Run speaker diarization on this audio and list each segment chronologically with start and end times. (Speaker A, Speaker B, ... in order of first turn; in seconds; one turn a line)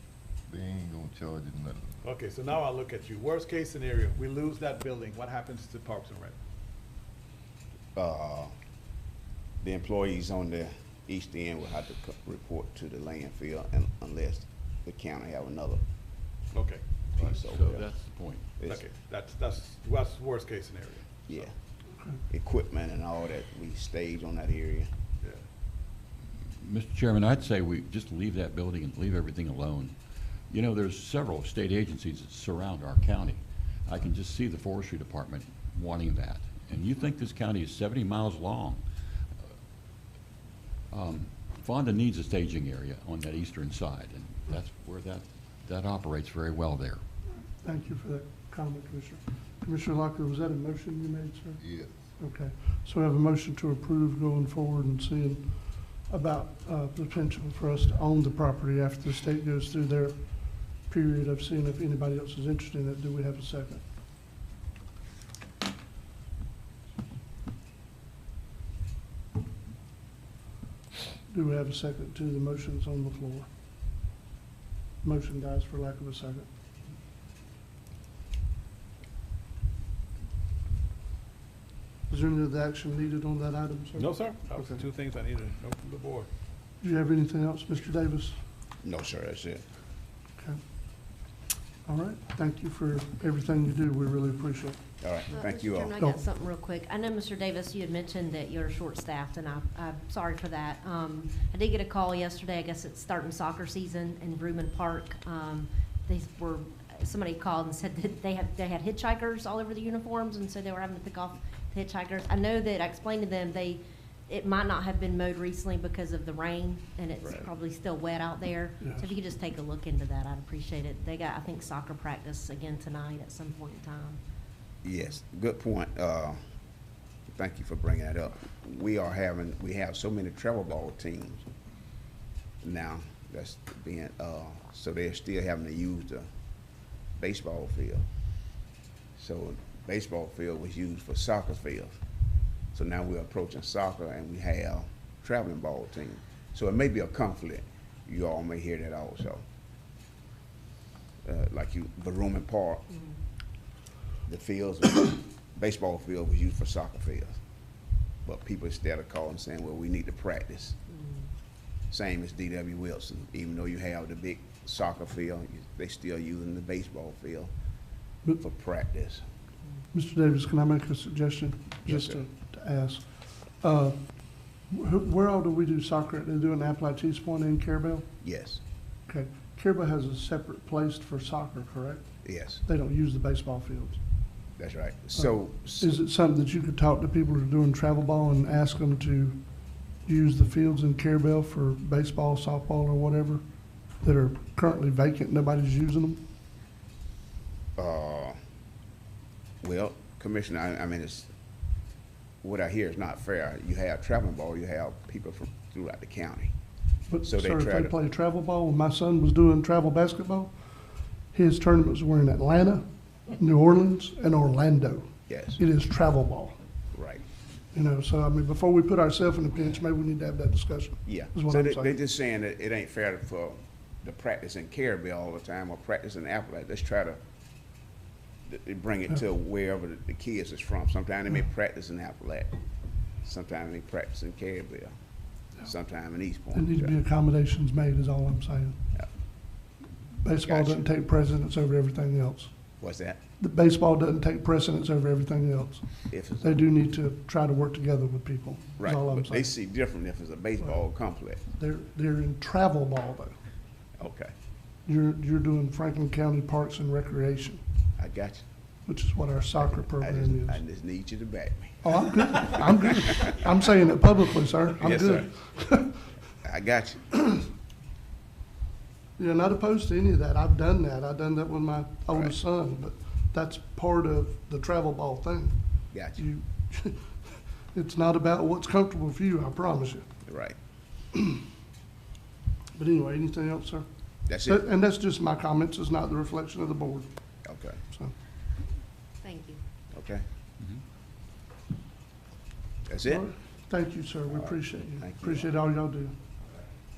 Speaker A: 0.5-2.0
Speaker B: 2.0-6.3
Speaker C: 8.0-8.5
Speaker C: 9.6-15.8
Speaker B: 16.6-16.8
Speaker D: 17.2-18.6
Speaker C: 17.2-17.9
Speaker C: 18.6-18.8
Speaker B: 18.6-21.1
Speaker C: 22.3-24.9
Speaker D: 26.6-29.9
Speaker D: 30.5-38.8
Speaker D: 40.9-47.0
Speaker E: 47.6-51.6
Speaker A: 51.6-52.0
Speaker E: 52.2-63.8
Speaker E: 71.3-73.5
Speaker E: 75.0-76.5
Speaker E: 82.1-84.8
Speaker B: 84.0-86.3
Speaker E: 86.8-88.4
Speaker C: 88.8-89.6
Speaker E: 91.8-94.8
Speaker C: 95.0-95.9
Speaker F: 95.3-124.2
Speaker C: 117.2-117.5
Speaker C: 124.8-126.4
Speaker C: 127.3-131.5
Speaker C: 132.6-136.3
Speaker C: 137.2-138.1
Speaker C: 139.2-142.0
Speaker C: 142.7-149.4
Speaker C: 151.2-152.9
Speaker C: 154.3-157.4
Speaker C: 158.2-160.8
Speaker F: 160.9-161.2
Speaker C: 161.9-167.5
Speaker C: 168.4-169.2
Speaker E: 169.9-178.1
Speaker C: 171.9-172.2
Speaker C: 178.2-178.6
Speaker E: 179.1-182.1
Speaker C: 182.2-182.6
Speaker E: 182.6-184.0
Speaker C: 184.6-186.0
Speaker E: 185.2-189.4
Speaker E: 190.0-193.4
Speaker E: 194.0-196.2
Speaker C: 197.8-198.4
Speaker C: 199.6-201.3
Speaker C: 202.4-206.5
Speaker E: 207.1-210.5
Speaker C: 207.2-207.9
Speaker E: 211.3-212.8
Speaker E: 213.3-216.6
Speaker C: 215.3-215.6
Speaker C: 216.9-217.2
Speaker E: 217.7-222.0
Speaker C: 221.1-227.2
Speaker C: 228.5-232.6
Speaker C: 233.2-234.9
Speaker C: 235.6-236.9
Speaker E: 236.5-238.8
Speaker E: 240.2-242.5
Speaker C: 240.4-240.8
Speaker C: 242.8-243.2
Speaker E: 243.4-249.5
Speaker C: 246.1-246.6
Speaker C: 248.8-251.4
Speaker E: 251.5-253.4
Speaker C: 254.0-254.3
Speaker E: 254.9-257.6
Speaker C: 258.0-258.4
Speaker E: 258.9-260.6
Speaker C: 259.6-263.0
Speaker E: 261.8-266.1
Speaker C: 264.8-265.3
Speaker C: 266.4-267.2
Speaker E: 269.2-275.6
Speaker C: 275.9-276.2
Speaker E: 276.2-277.2
Speaker E: 277.7-280.1
Speaker C: 280.3-280.6
Speaker E: 282.8-287.1
Speaker C: 284.3-284.6
Speaker C: 287.4-287.8
Speaker F: 289.2-289.6
Speaker C: 289.9-290.2
Speaker C: 292.9-293.3
Speaker E: 293.1-296.2
Speaker C: 294.3-295.5